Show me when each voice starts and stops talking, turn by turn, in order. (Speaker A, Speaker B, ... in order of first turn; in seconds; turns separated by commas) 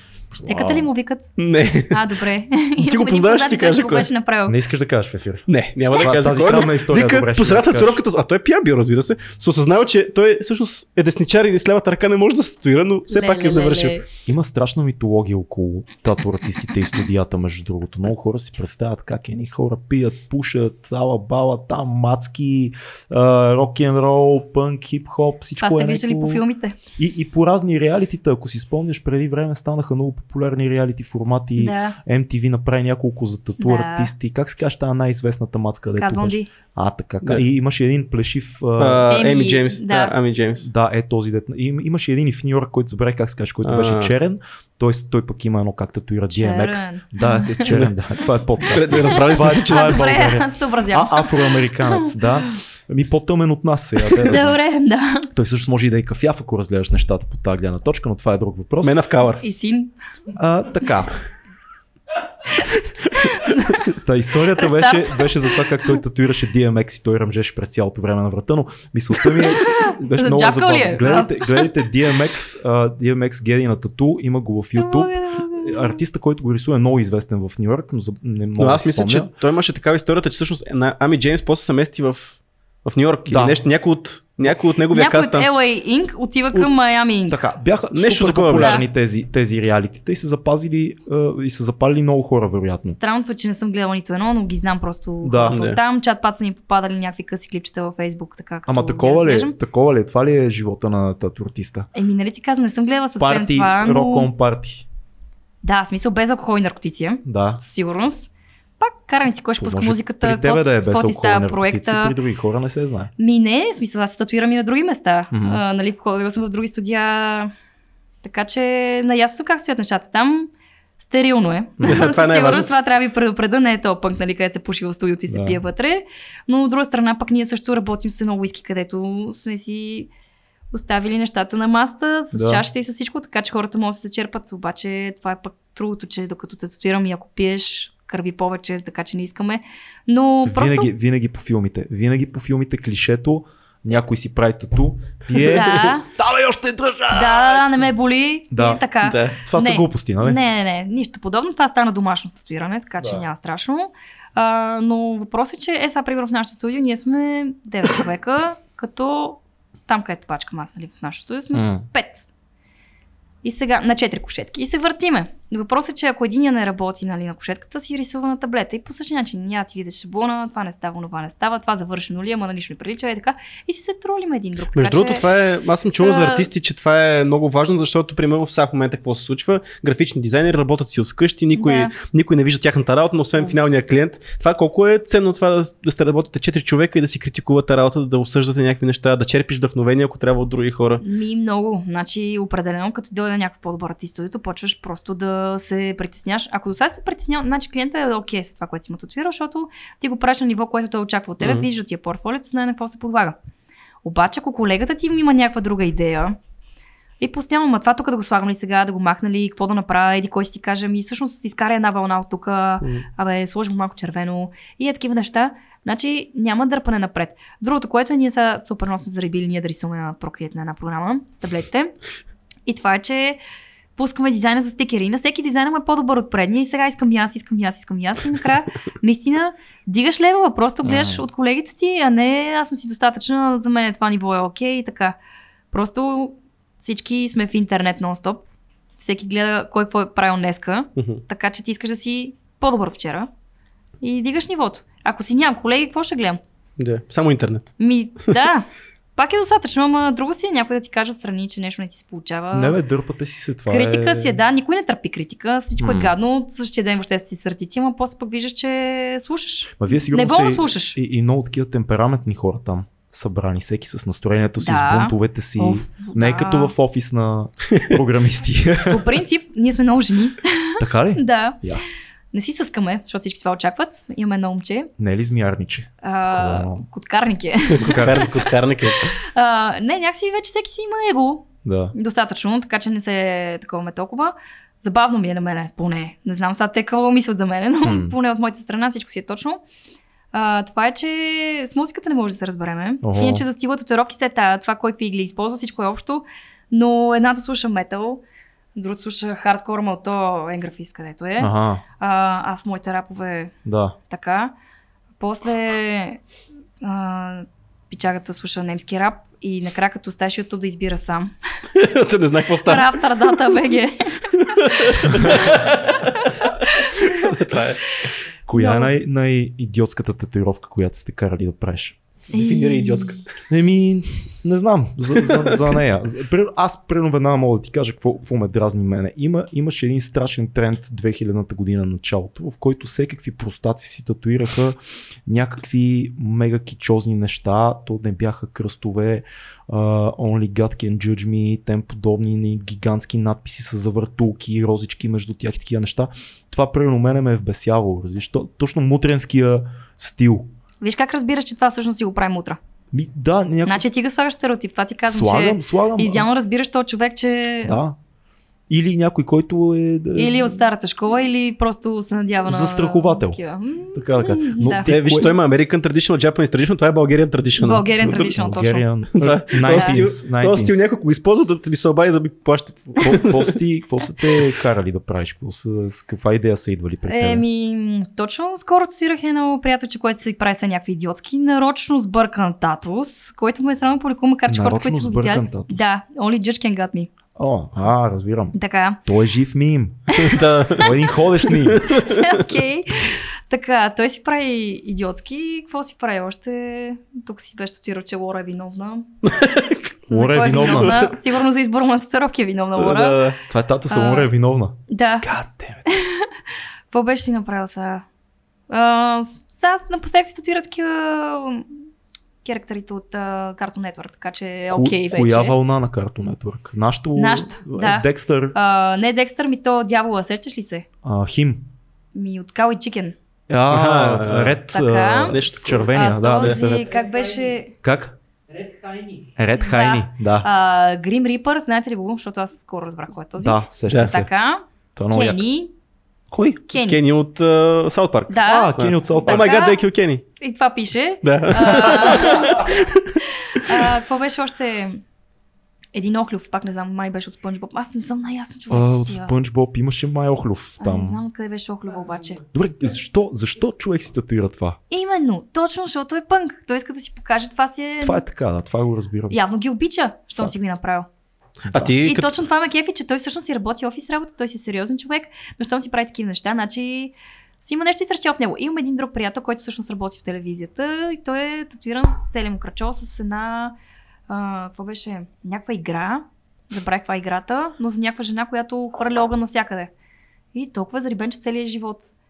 Speaker A: 0.3-4.6, Speaker B: 0.4-0.9, Speaker C: 1.4-2.1, Speaker C: 2.8-4.1, Speaker B: 4.5-8.0, Speaker C: 5.5-14.0, Speaker A: 5.9-6.2, Speaker A: 13.1-14.1, Speaker B: 14.3-26.4, Speaker A: 25.6-26.8, Speaker B: 27.0-39.1, Speaker A: 31.6-32.0, Speaker A: 33.6-34.1, Speaker A: 36.0-36.5, Speaker C: 38.8-40.7, Speaker A: 39.1-40.1, Speaker B: 40.6-54.6, Speaker C: 43.6-44.1, Speaker A: 46.3-47.8, Speaker C: 48.6-50.2, Speaker A: 48.9-52.5, Speaker A: 54.1-55.3, Speaker B: 55.3-59.0, Speaker C: 58.8-59.4, Speaker A: 59.4-59.9, Speaker B: 60.4-61.2, Speaker A: 63.2-63.9, Speaker B: 63.9-79.3, Speaker A: 64.6-65.7, Speaker A: 69.3-71.8, Speaker A: 74.8-76.0, Speaker C: 78.6-85.5, Speaker B: 83.3-83.6, Speaker A: 84.9-87.4, Speaker B: 87.3-93.0, Speaker C: 87.9-88.8, Speaker A: 88.6-88.8, Speaker A: 93.0-99.5, Speaker B: 95.2-95.6, Speaker C: 95.5-95.8, Speaker B: 98.7-101.9, Speaker A: 102.0-104.3, Speaker B: 103.2-104.8, Speaker A: 105.6-108.3, Speaker B: 107.2-107.6, Speaker A: 108.8-112.2, Speaker B: 109.6-113.1, Speaker A: 113.2-117.5, Speaker B: 115.3-115.6, Speaker A: 118.2-130.1, Speaker C: 121.8-122.7, Speaker B: 125.3-125.6, Speaker A: 130.7-140.9, Speaker B: 132.3-132.6, Speaker B: 140.5-147.8, Speaker A: 145.4-146.1, Speaker A: 147.1-162.3, Speaker B: 148.5-148.8, Speaker C: 149.0-149.4, Speaker B: 149.4-150.4, Speaker B: 153.0-153.3, Speaker B: 161.5-161.9, Speaker A: 163.4-175.3, Speaker C: 174.7-191.0, Speaker A: 176.0-176.5, Speaker A: 181.5-181.9, Speaker A: 191.0-203.4, Speaker C: 201.4-201.7, Speaker A: 204.0-206.4, Speaker A: 207.2-221.9, Speaker A: 222.7-223.4, Speaker A: 224.0-235.2, Speaker B: 230.8-231.2, Speaker A: 235.7-238.4, Speaker A: 239.0-243.3, Speaker C: 241.0-241.2, Speaker A: 244.0-246.4, Speaker C: 246.8-247.7, Speaker A: 247.8-252.8, Speaker B: 252.5-254.4, Speaker A: 253.7-261.0, Speaker B: 255.8-256.1, Speaker B: 259.8-269.1, Speaker A: 264.6-266.7, Speaker A: 268.9-271.6, Speaker B: 270.8-271.8, Speaker A: 272.3-274.9, Speaker B: 275.0-276.9, Speaker A: 276.0-278.4, Speaker C: 277.7-279.1, Speaker B: 277.8-278.4, Speaker A: 279.2-289.6, Speaker B: 281.6-281.9, Speaker B: 287.8-288.1, Speaker A: 290.3-298.2, Speaker B: 293.0-293.5, Speaker A: 298.8-303.5, Speaker B: 301.4-301.8, Speaker B: 303.6-304.0, Speaker A: 304.1-304.5, Speaker A: 305.2-306.2, Speaker A: 306.8-311.3, Speaker C: 311.7-313.6, Speaker A: 312.6-317.4, Speaker C: 314.3-316.1, Speaker B: 315.1-315.3, Speaker C: 316.9-317.9, Speaker B: 318.5-322.0, Speaker A: 318.5-318.9, Speaker C: 322.3-323.2, Speaker A: 322.3-323.2, Speaker B: 323.5-350.5, Speaker C: 325.2-325.8, Speaker A: 350.8-352.6, Speaker B: 352.9-353.8, Speaker A: 353.7-357.8, Speaker B: 355.1-356.3, Speaker B: 357.6-358.0, Speaker B: 358.7-360.6, Speaker A: 360.2-364.9, Speaker B: 362.5-363.4, Speaker B: 363.9-365.3, Speaker C: 364.8-368.3, Speaker A: 367.6-368.9, Speaker B: 368.0-370.9, Speaker C: 369.1-373.6, Speaker A: 369.7-370.0, Speaker B: 373.0-377.4, Speaker A: 377.1-387.1, Speaker B: 384.5-385.9, Speaker B: 387.4-391.9, Speaker A: 388.5-389.0, Speaker A: 390.1-391.0, Speaker C: 390.2-390.9, Speaker C: 391.6-392.5, Speaker A: 391.9-399.2, Speaker C: 399.2-399.9, Speaker A: 400.1-403.4, Speaker B: 400.1-401.1, Speaker C: 400.5-401.2, Speaker C: 402.8-403.4, Speaker B: 403.5-405.8, Speaker A: 403.9-404.3, Speaker A: 404.9-405.3, Speaker A: 405.9-406.3, Speaker A: 406.9-408.1, Speaker A: 408.7-411.7, Speaker A: 412.4-415.6, Speaker B: 414.7-418.6, Speaker A: 417.2-420.9, Speaker B: 421.0-421.6, Speaker A: 422.1-423.2, Speaker B: 423.5-426.9, Speaker C: 423.7-424.6, Speaker A: 424.7-427.7, Speaker C: 425.3-426.6, Speaker B: 427.8-428.2, Speaker B: 429.4-430.5, Speaker A: 429.6-435.7, Speaker B: 433.4-434.3, Speaker C: 433.9-434.1, Speaker B: 435.0-435.4, Speaker B: 436.3-436.6, Speaker A: 436.7-437.0, Speaker C: 436.8-440.2, Speaker A: 438.3-439.9, Speaker B: 438.4-439.5, Speaker A: 440.4-442.8, Speaker C: 441.2-443.9, Speaker A: 443.4-445.0, Speaker A: 445.9-449.3, Speaker B: 448.7-451.2, Speaker A: 450.8-452.4, Speaker B: 452.5-454.8, Speaker A: 454.9-458.2, Speaker B: 458.0-459.4, Speaker A: 459.3-461.1, Speaker C: 461.7-462.3, Speaker A: 462.0-473.8, Speaker A: 474.3-479.9, Speaker A: 480.5-482.1